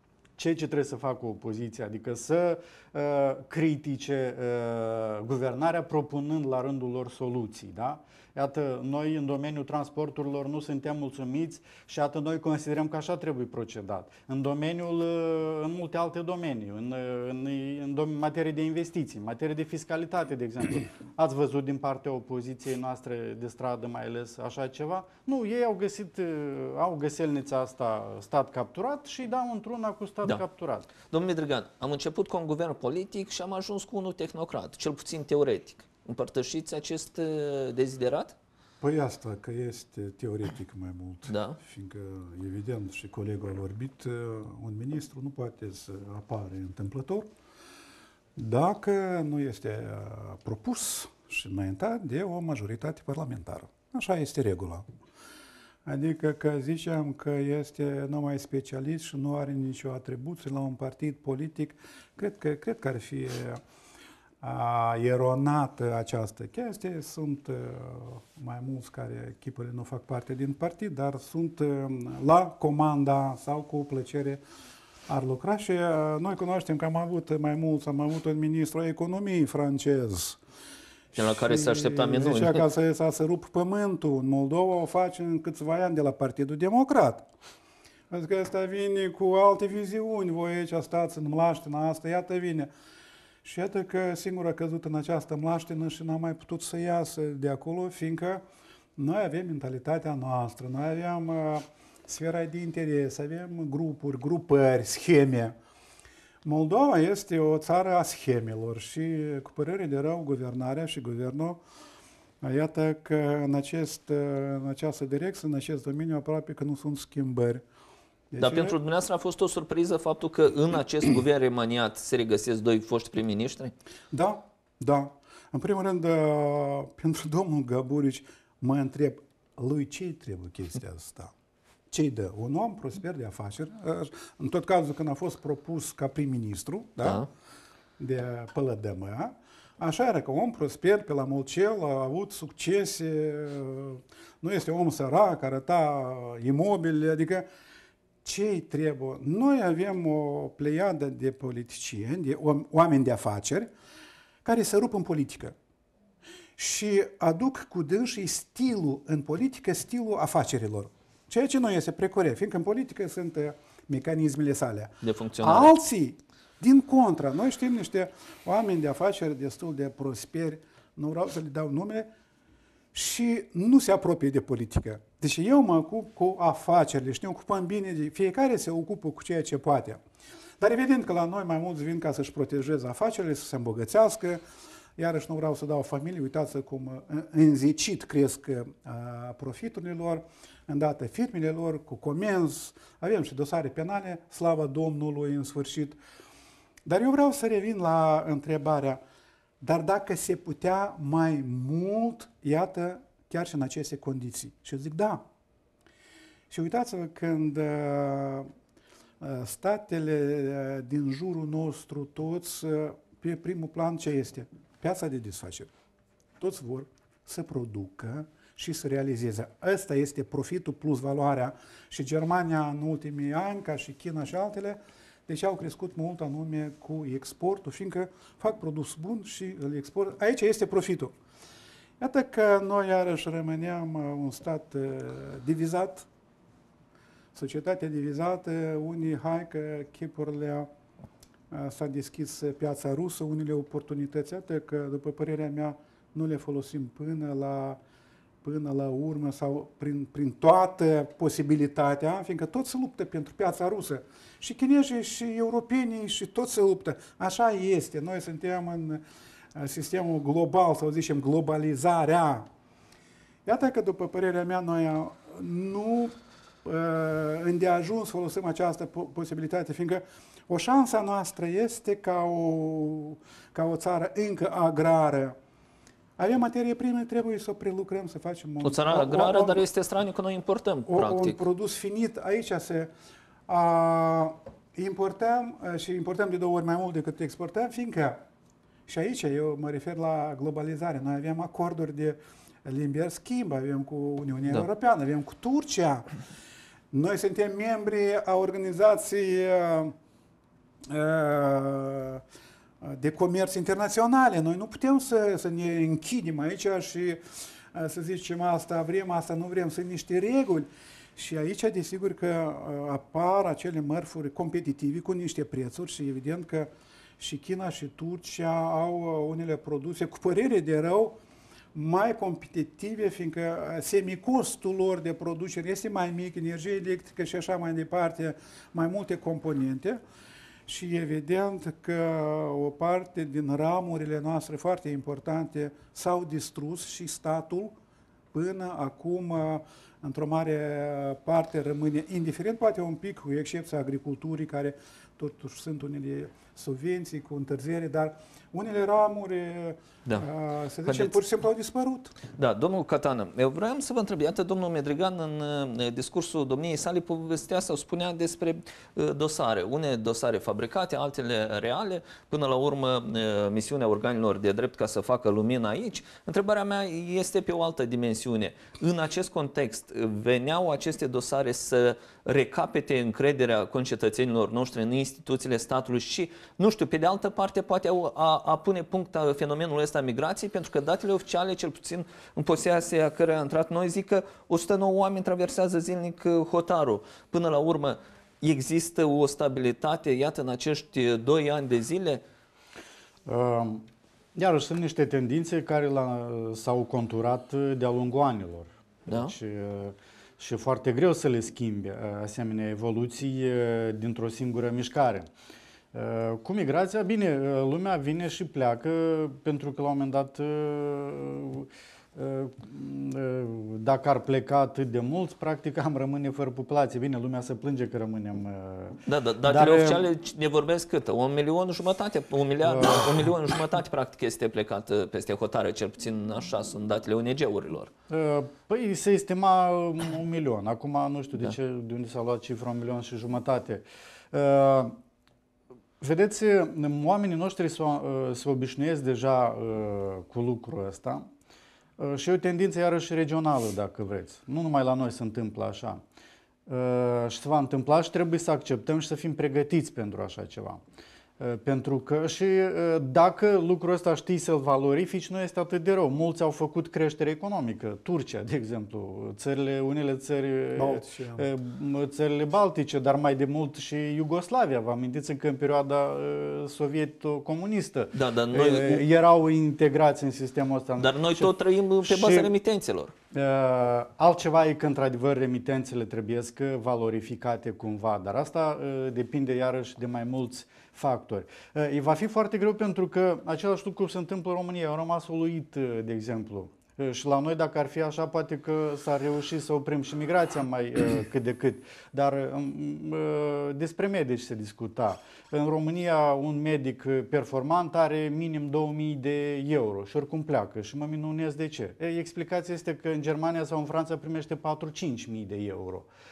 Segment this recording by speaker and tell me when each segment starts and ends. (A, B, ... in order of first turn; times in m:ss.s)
0:00.4-0:30.9 A
0:31.1-0:38.4 B
0:38.8-0:47.3 C
0:41.3-0:41.6 B
0:48.4-0:54.8 C
0:55.9-1:03.6 C
1:04.4-1:14.4 C
1:15.1-1:20.4 C
1:21.1-1:22.6 B
1:21.2-1:27.3 C
1:28.1-1:32.7 C
1:33.4-1:38.4 C
1:39.0-1:45.5 C
1:46.4-1:51.6 C
1:52.4-1:57.6 C
1:58.3-1:58.8 C
1:58.4-2:03.7 B
2:04.1-2:11.3 C
2:11.9-2:17.2 C
2:17.0-2:17.3 B
2:18.0-2:27.5 C
2:28.2-2:33.7 C
2:34.4-2:35.5 C
2:36.6-2:52.1 C
2:45.0-2:45.7 B
2:52.9-3:00.0 C
3:00.6-3:04.4 C
3:05.0-3:16.0 C
3:16.8-3:19.0 C
3:19.6-3:25.2 C
3:26.5-3:28.5 C
3:29.2-3:35.7 C
3:36.4-3:51.1 C
3:52.0-3:56.1 C
3:57.3-4:00.7 C
4:01.5-4:07.8 C
4:08.4-4:19.0 C
4:19.6-4:22.5 C
4:23.4-4:26.1 C
4:26.6-4:35.4 C
4:36.2-4:39.6 C
4:38.6-4:41.4 B
4:40.9-4:42.9 C
4:43.5-4:48.2 C
4:48.9-4:56.1 C
4:56.9-4:59.9 C
5:00.9-5:02.2 C
5:02.8-5:07.2 C
5:07.7-5:21.2 C
5:21.7-5:30.0 C
5:30.7-5:37.8 C
5:38.3-5:52.1 C
5:50.9-5:51.2 B
5:52.4-6:32.2 B
6:33.3-6:45.3 A
6:39.1-6:39.3 B
6:45.9-7:00.1 A
6:59.1-7:07.9 B
7:02.6-7:03.3 A
7:08.1-7:15.0 A
7:16.0-7:21.3 A
7:22.0-7:26.0 A
7:26.7-7:30.8 A
7:31.4-7:51.5 A
7:40.8-7:41.5 C
7:48.1-7:49.0 B
7:51.0-7:53.1 B
7:52.0-7:52.5 A
7:53.3-8:26.1 A